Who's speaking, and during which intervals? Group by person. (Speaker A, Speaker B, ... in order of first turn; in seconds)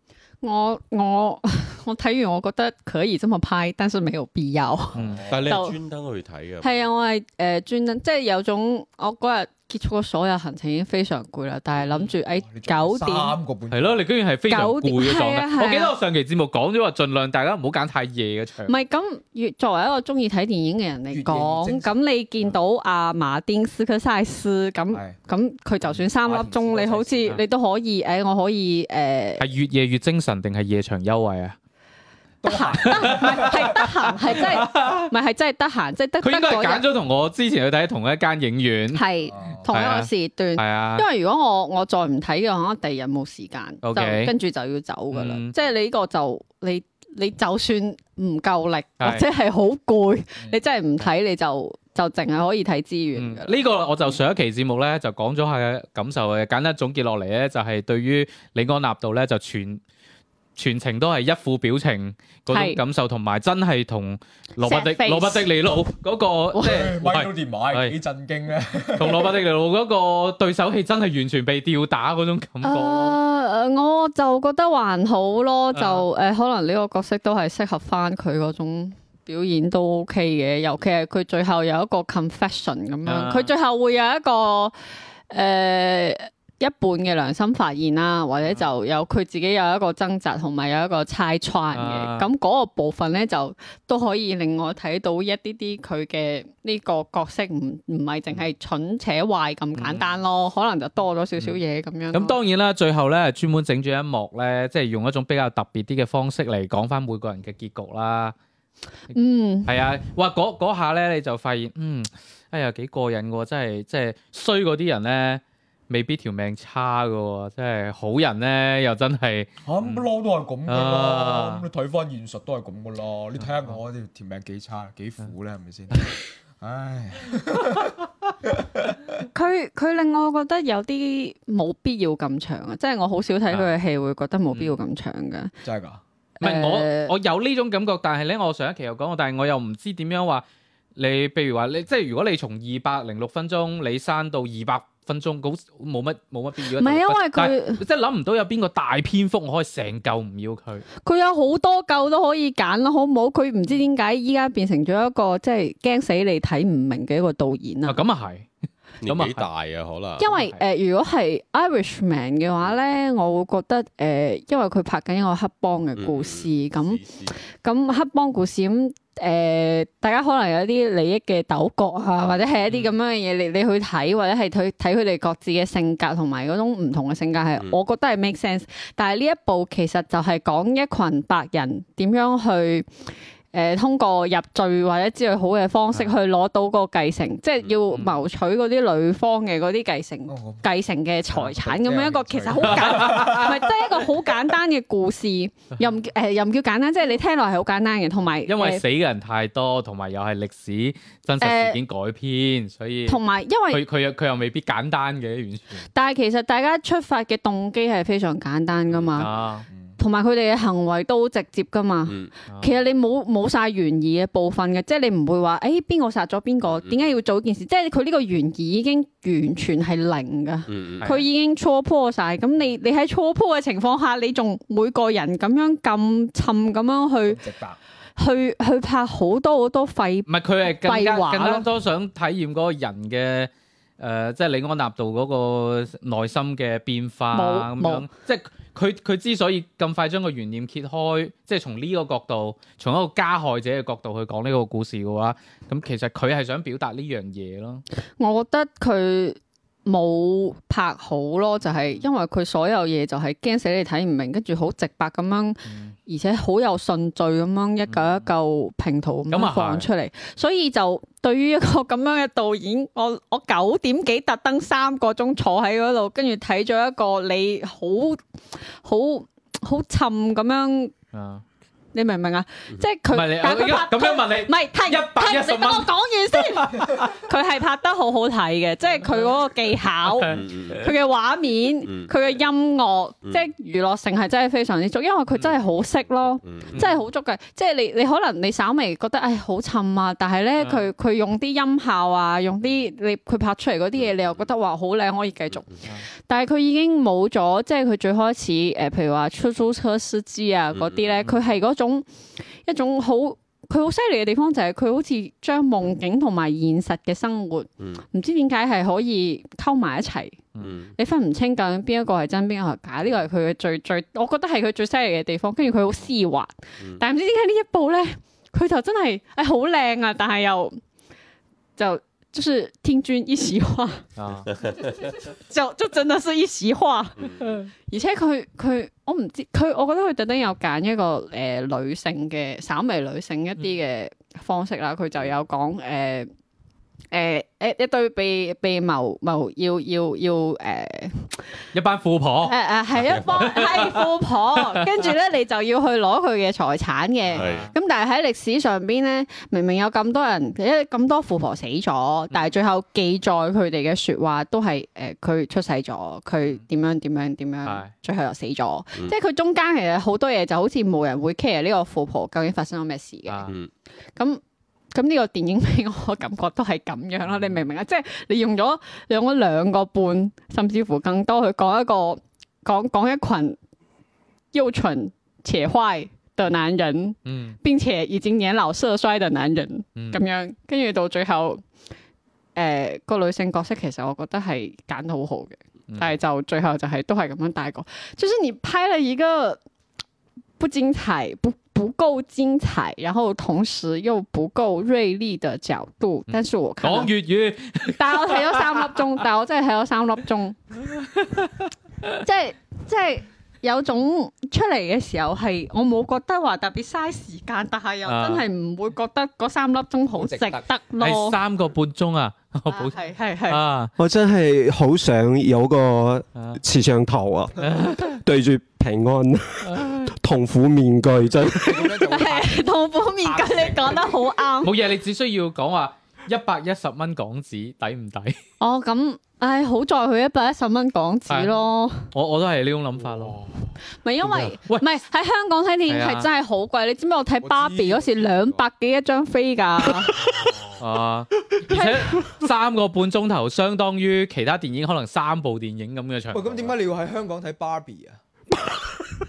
Speaker A: 0.4-5.8, 6.6-13.4, 14.5-16.0, 18.7-29.5, 32.5-36.9, 38.9-53.6, 62.5-62.8, 64.6-65.5, 72.6-84.7, 85.3-102.4, 109.1-109.8, 129.3-135.5, 136.4-137.1, 146.7-147.8, 151.0-158.0, 160.2-167.0, 167.6-182.9, 183.5-198.8, 201.4-201.8, 203.1-203.8, 205.9-209.3, 210.0-227.4, 228.2-231.7, 237.3-238.1, 248.2-268.2, 268.8-270.9, 271.9-302.1, 302.6-310.4, 311.0-320.8, 321.8-324.1, 324.8-327.2, 327.9-336.3, 337.1-341.4, 342.4-363.5, 364.9-373.6, 374.5-381.6, 382.6-389.6, 390.6-397.1, 398.0-400.6, 402.2-411.4, 412.7-413.6, 422.1-424.8, 428.6-432.1, 434.0-440.2, 441.7-442.3
Speaker B: 4.9-5.2, 13.7-18.8, 29.4-31.6, 32.9-35.1, 36.2-39.0, 39.7-41.1, 43.8-44.3, 45.1-45.5, 49.0-49.3, 53.2-59.8, 60.6-68.0, 69.0-73.2, 75.7-76.0, 83.0-83.5, 91.7-92.3, 99.8-100.1, 102.1-108.3, 109.7-120.1, 120.7-121.7, 123.4-123.8, 134.5-134.8, 136.4-140.4, 141.0-150.9, 157.8-158.5, 159.1-159.5, 160.2-160.6, 187.9-188.2, 192.6-193.8, 198.5-205.9, 209.2-209.7, 212.5-212.7, 221.0-221.3, 230.3-247.8, 255.7-255.9, 257.9-258.3, 259.3-259.9, 271.1-271.4, 273.1-277.1, 280.2-280.9, 286.8-287.0, 290.6-290.9, 324.2-324.5, 327.4-327.7, 341.7-342.6, 343.4-345.0, 347.3-347.7, 357.6-357.9, 363.3-363.5, 367.3-367.6, 377.3-377.6, 380.0-380.2, 396.3-399.2, 400.9-402.2, 408.1-408.5, 411.0-413.9, 416.4-416.6, 417.6-418.2, 419.6-420.1, 424.6-428.4, 431.3-431.5, 432.1-433.4, 434.2-434.9, 435.9-436.3, 440.8-446.7
Speaker C: 5.0-5.6, 11.9-14.0, 21.1-21.9, 24.9-25.2, 26.2-27.4, 32.4-33.9, 39.3-39.7, 66.6-69.4, 119.7-129.0, 135.6-136.0, 190.3-190.7, 191.3-194.0, 209.7-210.0, 227.3-227.8, 410.1-410.7, 421.5-424.4, 433.0-433.5, 437.4-438.7, 446.3-448.2
Speaker D: 5.3-6.9, 159.0-160.3, 166.0-167.4, 208.9-209.2, 212.1-212.3, 220.7-221.1, 280.2-280.8, 281.9-282.1, 286.4-286.8, 294.0-294.4, 300.8-301.3, 310.6-310.9, 324.6-324.9, 327.2-327.5, 342.9-343.5, 347.4-347.7
Speaker E: 414.0-422.0